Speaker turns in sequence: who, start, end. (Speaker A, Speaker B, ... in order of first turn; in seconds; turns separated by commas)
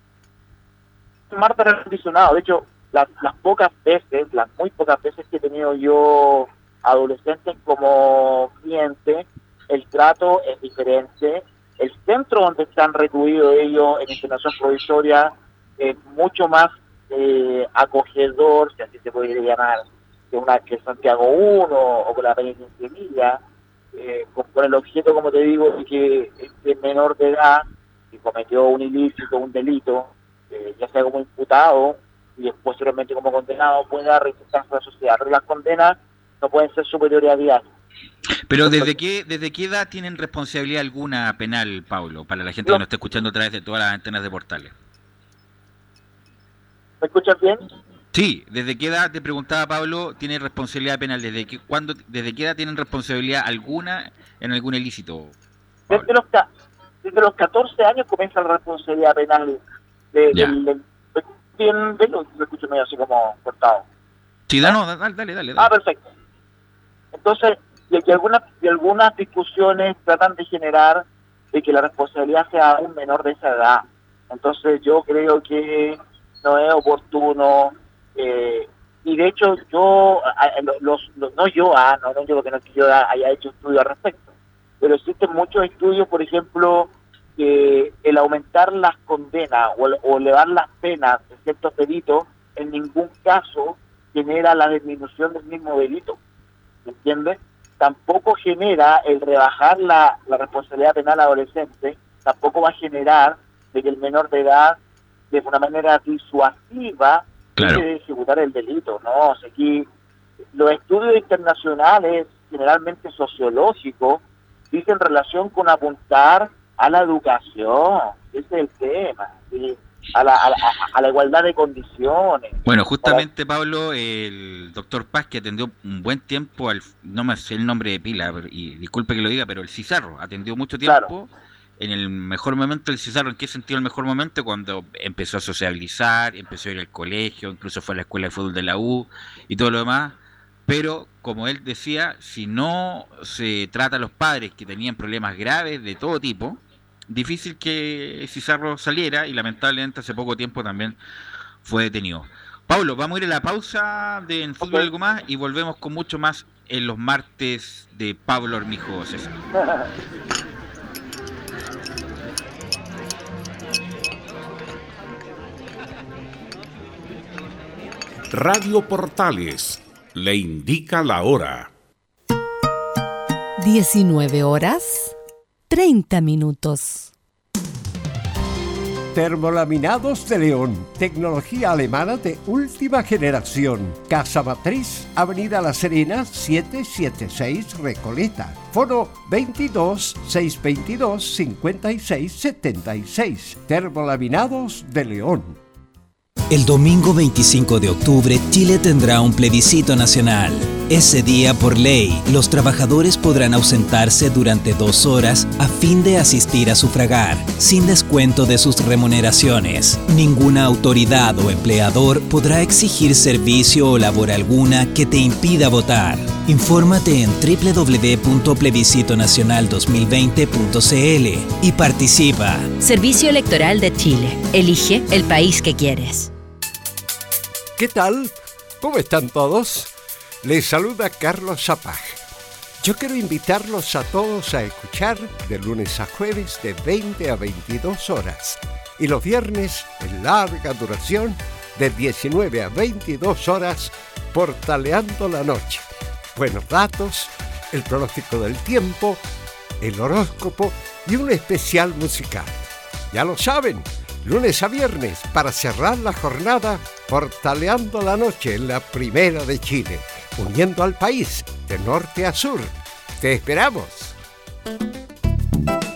Speaker A: 1.3-23.4, Speaker A: 23.9-37.7, Speaker B: 38.5-44.7, Speaker A: 47.0-47.6, Speaker B: 48.1-55.4, Speaker A: 55.9-56.5, Speaker A: 57.0-59.6, Speaker A: 60.1-63.8, Speaker B: 64.5-65.7, Speaker A: 65.6-66.0, Speaker A: 67.2-84.3, Speaker A: 84.8-96.2, Speaker A: 96.9-104.8, Speaker A: 105.3-109.9, Speaker B: 107.6-107.8, Speaker A: 110.5-123.3, Speaker B: 122.7-151.0, Speaker A: 130.8-131.1, Speaker B: 151.6-159.3, Speaker A: 154.6-154.9, Speaker C: 168.3-171.7, Speaker D: 173.6-175.2, Speaker D: 175.7-177.1, Speaker E: 179.1-195.6, Speaker F: 196.5-222.8, Speaker G: 222.8-226.3, Speaker E: 227.8-229.9, Speaker E: 230.4-232.2, Speaker E: 232.8-249.2, Speaker E: 249.8-264.1